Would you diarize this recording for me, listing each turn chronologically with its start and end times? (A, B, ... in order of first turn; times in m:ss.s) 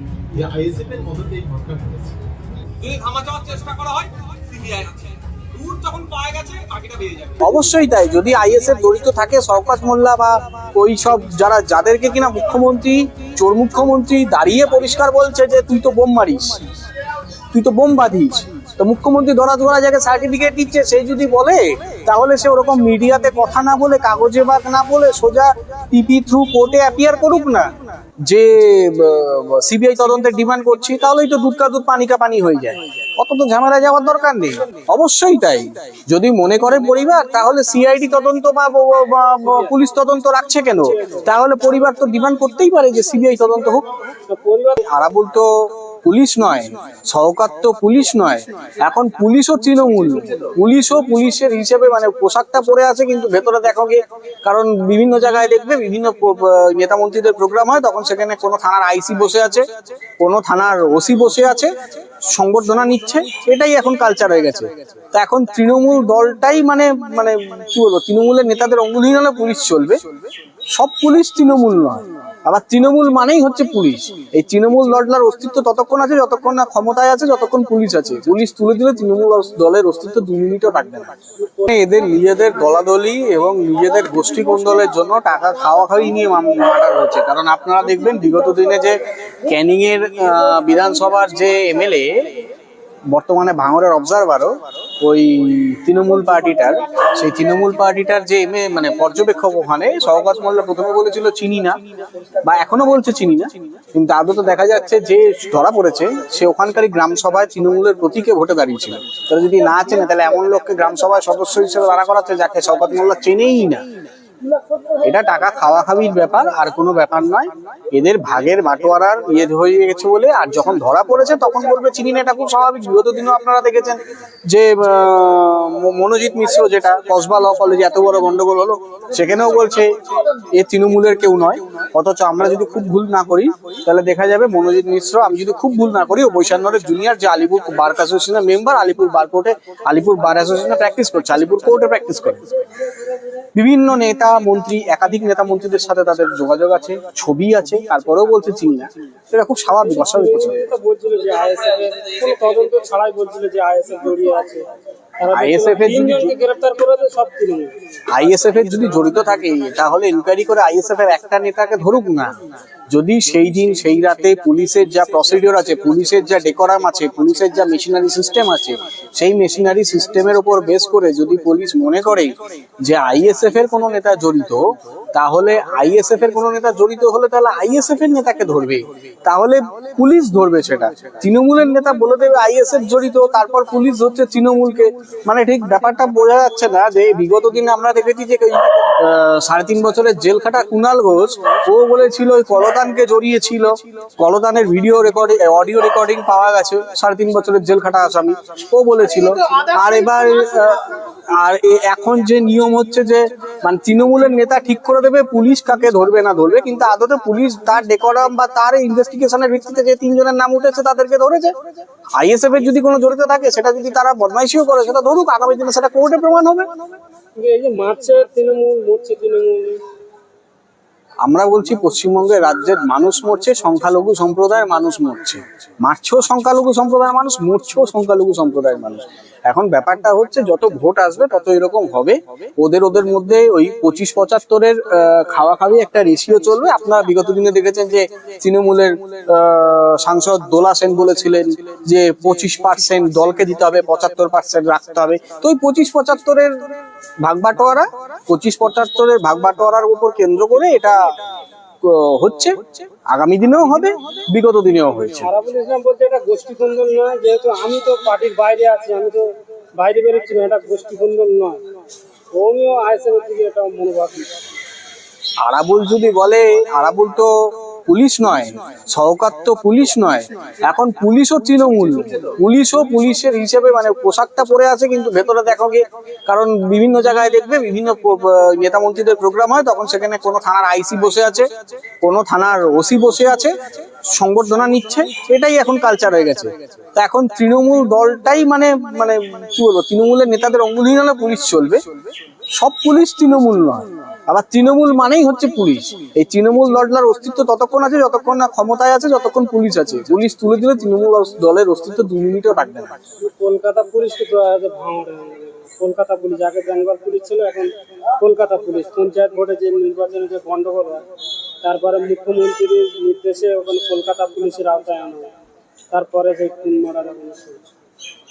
0:00.3-0:02.3 A
0:02.8-0:07.4 B
0:07.4-0:16.6 C
0:17.5-0:27.7 C
0:28.2-0:43.8 C
0:39.4-0:39.7 D
0:40.8-0:41.2 D
0:44.3-0:44.8 D
0:44.8-0:59.6 C
1:00.2-1:10.0 C
1:10.7-1:21.1 C
1:21.4-1:21.7 D
1:21.7-1:32.3 C
1:33.1-1:41.8 C
1:42.4-1:53.8 C
1:54.5-1:54.9 D
1:55.0-2:22.4 C
2:23.5-2:30.6 C
2:29.9-2:34.6 D
2:35.2-2:37.7 D
2:35.3-2:36.3 C
2:38.1-2:42.3 C
2:42.9-3:31.5 C
3:32.2-3:36.7 C
3:37.4-3:39.8 D
3:41.2-4:06.5 C
4:07.2-4:11.0 C
4:11.8-4:15.3 C
4:15.2-4:21.6 D
4:22.3-4:24.3 D
4:25.4-4:27.3 C
4:27.9-4:41.5 C
4:42.0-4:51.8 C
4:52.5-5:02.9 C
5:03.2-5:11.0 D
5:11.6-5:15.3 D
5:15.9-5:17.6 D